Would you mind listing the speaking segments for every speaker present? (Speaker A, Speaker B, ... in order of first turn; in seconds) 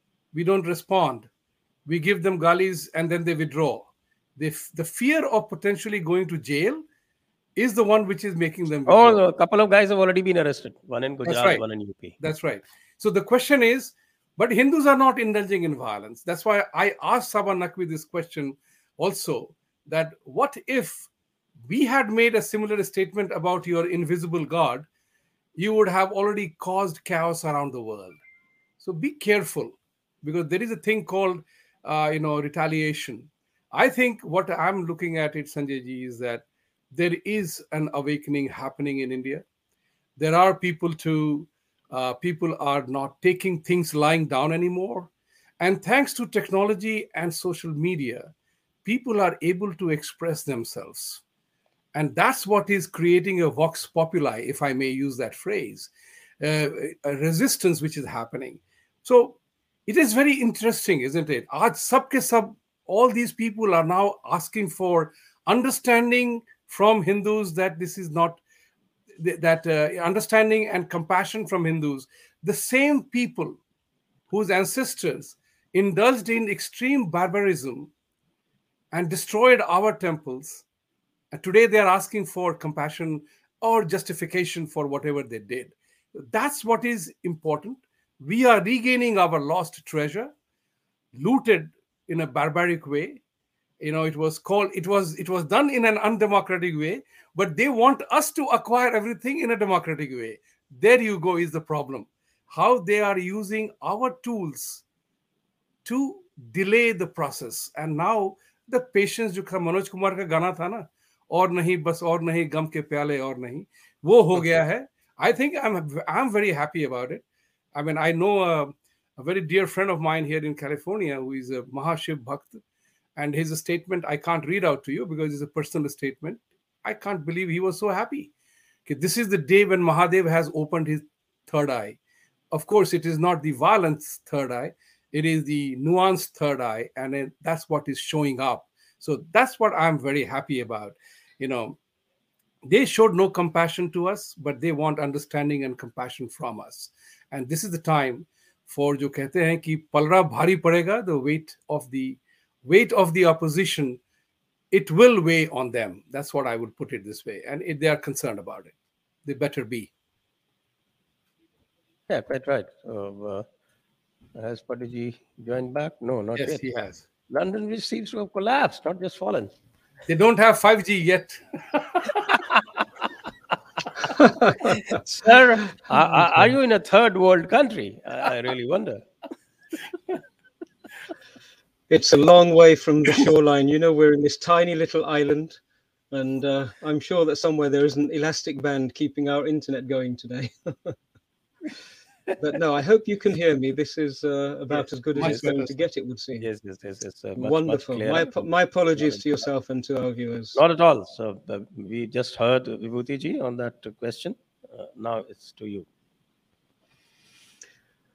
Speaker A: 0.3-1.3, 1.9-6.8, 7.6-9.2, 11.3-11.6, 12.2-21.1, 21.7-24.9, 25.6-28.2, 28.8-39.5, 40.2-48.3, 48.9-51.2, 51.9-68.4, 69.2-73.6, 74.3-77.9, 78.9-80.7, 81.3-90.3, 91.2-93.2, 93.8-104.8, 105.8-122.6, 123.2-128.3, 128.9-132.0, 132.5-141.8, 142.7-154.0, 154.7-158.7, 159.2-159.9, 166.4-167.0, 170.1-172.4, 195.2-195.8
Speaker B: 8.9-12.2, 162.1-163.5, 164.3-166.6, 167.3-169.5, 174.7-179.1, 196.4-198.4, 199.0-199.2, 200.6-205.9
Speaker C: 174.1-175.0, 181.9-185.6, 186.1-191.0, 192.4-196.5, 197.4-200.6